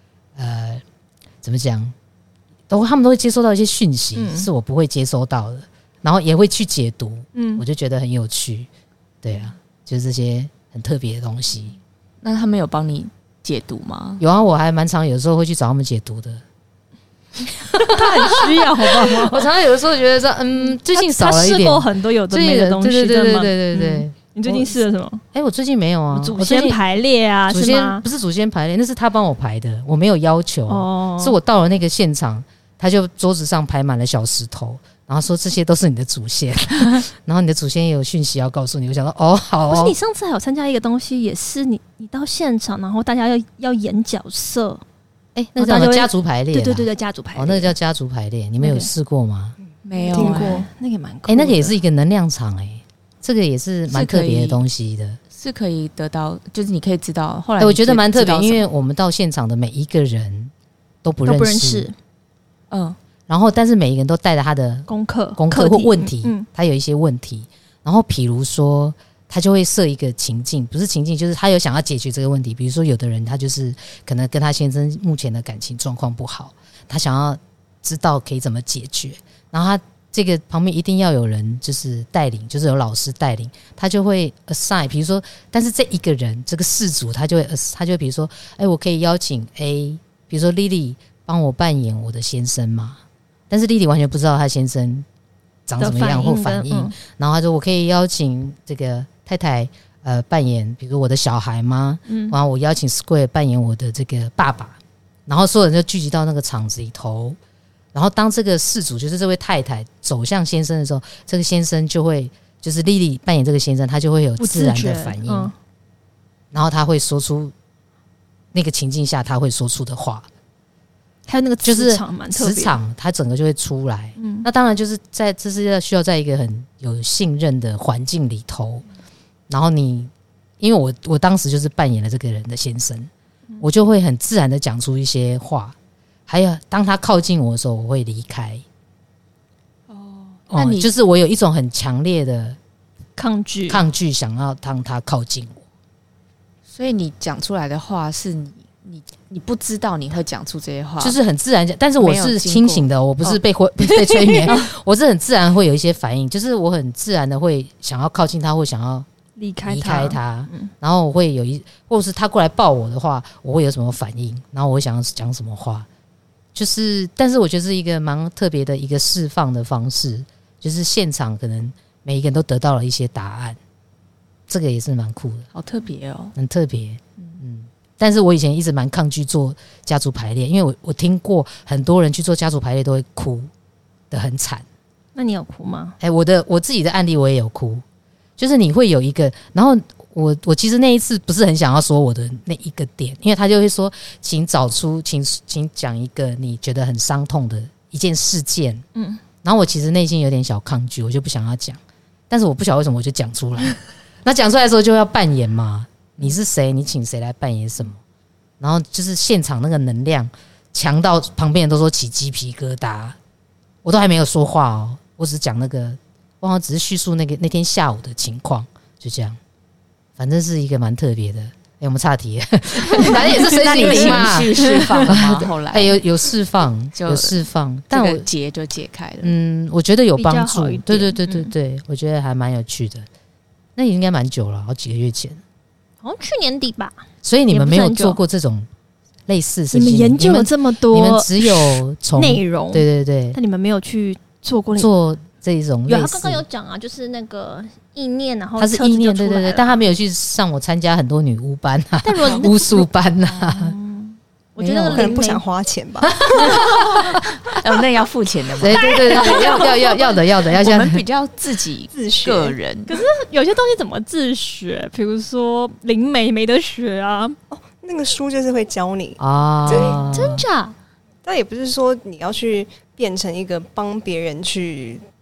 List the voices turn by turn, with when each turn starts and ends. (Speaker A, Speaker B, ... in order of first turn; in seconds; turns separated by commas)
Speaker A: 0.4-0.8, Speaker A: 1.4-1.9, Speaker A: 2.7-8.7, Speaker B: 4.2-4.5, Speaker B: 7.3-7.6, Speaker A: 9.2-11.8, Speaker C: 12.2-14.2, Speaker A: 14.2-16.4, Speaker A: 17.7-24.8, Speaker B: 17.9-19.5, Speaker B: 20.8-25.2, Speaker A: 25.3-26.8, Speaker B: 26.1-28.0, Speaker A: 27.5-40.0, Speaker B: 30.7-31.4, Speaker B: 39.7-44.8, Speaker A: 45.4-49.6, Speaker B: 45.6-47.7, Speaker B: 48.6-48.9, Speaker C: 49.8-50.6, Speaker D: 50.0-50.6, Speaker B: 50.1-51.8, Speaker A: 51.3-55.2, Speaker C: 53.9-54.6, Speaker C: 55.3-58.6, Speaker A: 57.6-60.5, Speaker A: 61.0-61.9, Speaker B: 61.2-62.0, Speaker C: 62.7-63.0, Speaker A: 63.3-95.1, Speaker B: 64.9-66.5, Speaker A: 95.7-107.4, Speaker B: 95.8-97.0, Speaker B: 102.1-102.4, Speaker A: 107.9-115.5, Speaker B: 114.4-115.5, Speaker A: 116.5-117.5, Speaker A: 118.5-120.3, Speaker B: 121.3-122.8, Speaker A: 121.6-128.8, Speaker B: 124.2-124.5, Speaker A: 129.5-133.1, Speaker A: 133.6-135.8, Speaker A: 136.3-138.6, Speaker C: 139.9-140.9, Speaker A: 140.5-142.6, Speaker B: 143.2-143.8, Speaker A: 143.7-145.6, Speaker C: 146.7-151.2, Speaker A: 151.0-159.1, Speaker C: 152.0-153.4, Speaker B: 153.9-154.6, Speaker B: 159.4-160.7, Speaker A: 159.7-165.9, Speaker A: 166.6-173.6, Speaker A: 174.5-175.5, Speaker C: 175.5-176.3, Speaker A: 176.4-183.5, Speaker A: 184.1-184.6, Speaker B: 185.2-186.0, Speaker A: 186.0-187.8, Speaker A: 188.4-198.8, Speaker B: 198.9-199.2, Speaker A: 199.4-208.0, Speaker A: 208.6-213.2, Speaker A: 213.8-219.4, Speaker A: 220.2-228.3, Speaker B: 223.0-225.2, Speaker C: 223.0-226.0, Speaker C: 226.9-229.3, Speaker A: 229.2-233.1, Speaker B: 230.2-231.5, Speaker A: 233.8-235.4, Speaker B: 236.0-238.2, Speaker A: 237.2-238.7, Speaker A: 239.3-243.4, Speaker B: 239.7-244.9, Speaker A: 244.8-246.4, Speaker B: 245.9-249.8, Speaker A: 248.6-253.8, Speaker B: 252.0-255.4, Speaker C: 254.6-255.1, Speaker D: 254.9-256.2, Speaker A: 256.1-257.2, Speaker B: 256.4-257.0, Speaker C: 257.4-263.0, Speaker A: 258.6-261.0, Speaker B: 258.8-259.7, Speaker D: 261.9-262.6, Speaker B: 262.9-267.4, Speaker D: 267.5-270.4, Speaker A: 269.2-270.4, Speaker B: 269.7-270.8, Speaker D: 271.2-275.0